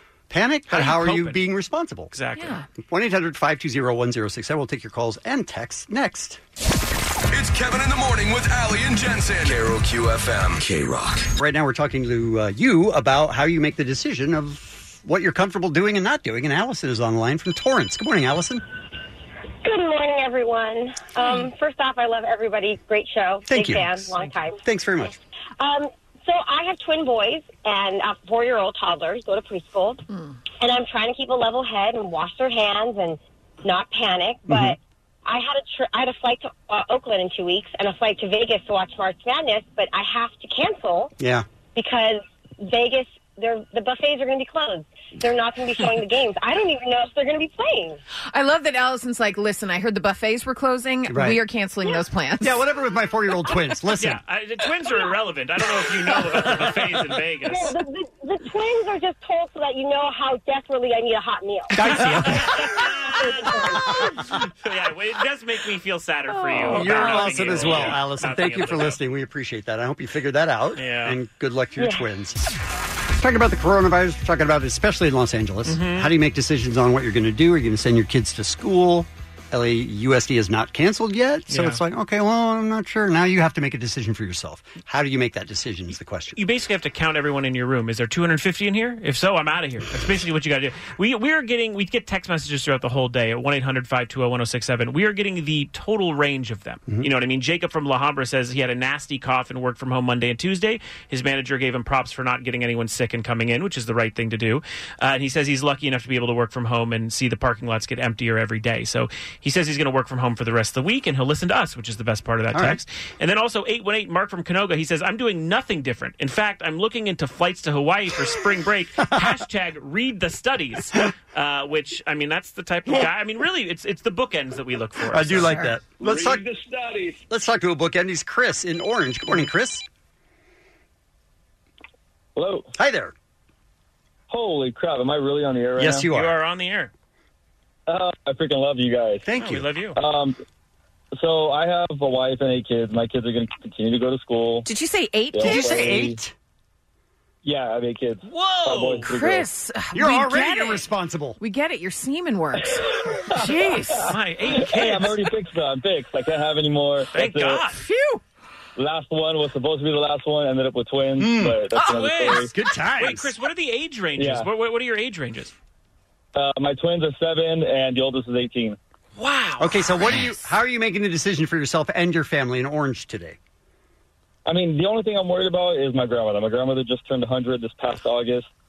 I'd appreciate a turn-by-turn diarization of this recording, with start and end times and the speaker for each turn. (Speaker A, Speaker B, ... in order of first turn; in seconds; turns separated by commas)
Speaker A: 0.3-2.1, Speaker B: 0.7-1.4, Speaker B: 2.1-2.6, Speaker C: 2.4-2.6, Speaker A: 2.8-6.4, Speaker D: 7.3-11.3, Speaker A: 11.3-18.6, Speaker E: 19.6-24.6, Speaker C: 21.2-21.5, Speaker A: 23.5-24.1, Speaker A: 24.6-25.2, Speaker E: 25.6-30.0, Speaker E: 30.6-41.1, Speaker A: 34.5-34.8, Speaker A: 41.2-41.5, Speaker E: 41.8-48.0, Speaker C: 48.3-52.6, Speaker A: 51.1-51.4, Speaker A: 52.4-54.2, Speaker B: 54.0-57.8, Speaker E: 57.5-61.7, Speaker A: 61.7-62.9, Speaker B: 61.8-64.0, Speaker A: 63.4-64.2, Speaker B: 64.6-69.0, Speaker C: 66.5-67.4, Speaker A: 66.6-86.4, Speaker B: 70.8-71.2, Speaker E: 71.8-72.0, Speaker B: 75.7-76.1, Speaker B: 81.5-81.8, Speaker B: 86.4-125.6, Speaker A: 112.5-112.8, Speaker A: 125.1-126.4, Speaker C: 125.4-125.7, Speaker A: 127.3-129.8, Speaker F: 132.3-132.7, Speaker A: 132.8-133.1, Speaker F: 134.3-136.0, Speaker A: 135.8-136.3, Speaker B: 136.0-136.9, Speaker F: 137.9-139.2, Speaker A: 139.2-139.7, Speaker B: 139.4-140.0, Speaker F: 139.9-140.4, Speaker F: 141.2-144.7, Speaker C: 144.6-145.9, Speaker F: 145.3-146.2, Speaker A: 145.4-146.3, Speaker F: 147.4-149.4, Speaker B: 148.3-149.1, Speaker C: 149.0-150.8, Speaker A: 149.9-151.4, Speaker C: 151.4-154.1, Speaker B: 154.1-155.2, Speaker F: 154.5-157.6, Speaker B: 157.1-157.8, Speaker C: 157.7-158.2, Speaker F: 158.8-162.5, Speaker A: 161.2-161.6, Speaker B: 161.7-165.5, Speaker A: 162.2-163.3, Speaker F: 164.2-164.5, Speaker F: 166.3-168.8, Speaker B: 169.2-170.4, Speaker A: 169.6-173.4, Speaker F: 174.4-178.5